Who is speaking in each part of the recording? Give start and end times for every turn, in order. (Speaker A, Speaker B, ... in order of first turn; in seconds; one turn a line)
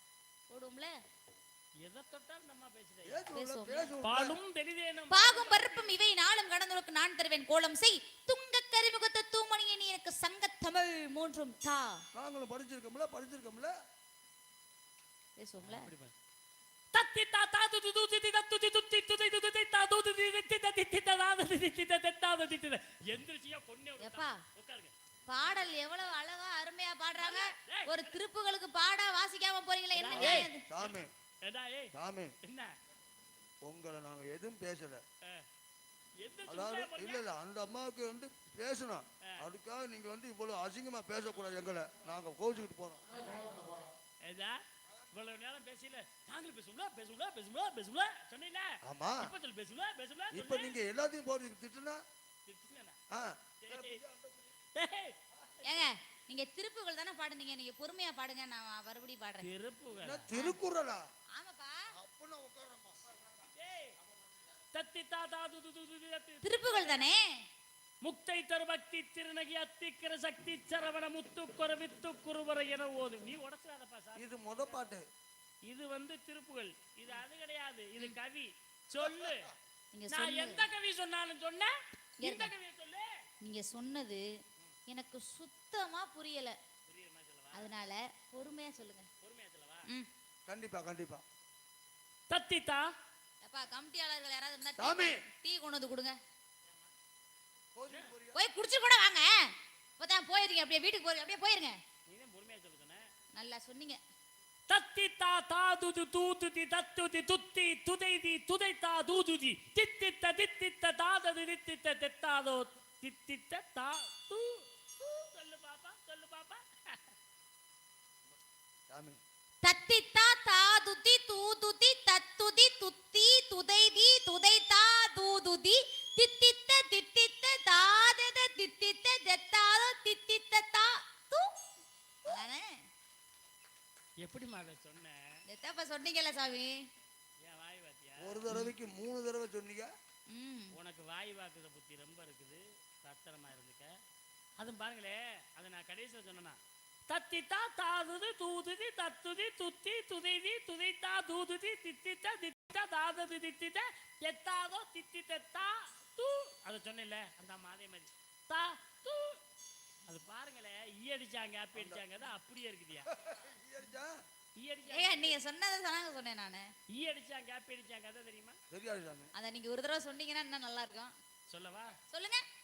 Speaker A: 0.5-0.9
Speaker B: 1.8-3.3
Speaker C: 3.0-4.4
Speaker A: 3.3-3.9
Speaker B: 4.0-5.9
Speaker A: 5.1-12.0
Speaker C: 12.1-13.7
Speaker A: 15.4-15.9
Speaker B: 15.6-16.1
Speaker B: 16.9-24.9
Speaker A: 24.0-24.4
Speaker A: 25.3-30.6
Speaker B: 27.2-28.2
Speaker B: 29.9-32.7
Speaker C: 30.1-31.1
Speaker C: 31.9-32.4
Speaker C: 33.6-35.0
Speaker B: 36.2-37.2
Speaker C: 36.5-43.0
Speaker B: 44.2-44.6
Speaker B: 45.1-50.8
Speaker C: 48.8-49.3
Speaker C: 50.3-52.0
Speaker B: 52.5-53.0
Speaker C: 53.1-54.5
Speaker B: 53.6-54.0
Speaker B: 54.8-55.9
Speaker A: 55.6-59.5
Speaker B: 59.4-60.3
Speaker C: 60.0-61.0
Speaker A: 61.3-61.9
Speaker C: 61.9-63.2
Speaker B: 63.6-64.0
Speaker B: 64.7-67.0
Speaker A: 66.4-67.2
Speaker B: 68.0-74.8
Speaker C: 74.2-75.1
Speaker B: 75.7-79.5
Speaker A: 79.9-80.7
Speaker B: 80.1-83.1
Speaker A: 82.2-82.5
Speaker A: 83.4-84.3
Speaker A: 84.9-86.6
Speaker B: 86.9-87.7
Speaker A: 87.5-89.1
Speaker B: 89.2-89.9
Speaker C: 90.5-91.2
Speaker B: 92.3-92.9
Speaker A: 93.4-96.2
Speaker C: 94.8-95.2
Speaker C: 97.8-98.4
Speaker A: 98.3-101.8
Speaker B: 102.1-103.0
Speaker A: 103.3-104.0
Speaker B: 104.7-117.1
Speaker C: 118.9-119.2
Speaker A: 119.6-131.5
Speaker A: 132.2-132.8
Speaker B: 134.2-135.4
Speaker A: 135.5-136.8
Speaker B: 137.4-138.5
Speaker C: 138.2-139.9
Speaker A: 140.3-140.8
Speaker B: 140.7-143.9
Speaker B: 144.6-146.6
Speaker B: 147.1-159.4
Speaker B: 160.1-163.1
Speaker C: 161.8-162.0
Speaker C: 163.2-164.2
Speaker B: 164.6-165.4
Speaker A: 164.9-166.7
Speaker B: 166.9-168.6
Speaker C: 168.7-169.3
Speaker A: 169.4-171.1
Speaker B: 171.5-172.0
Speaker A: 172.1-172.4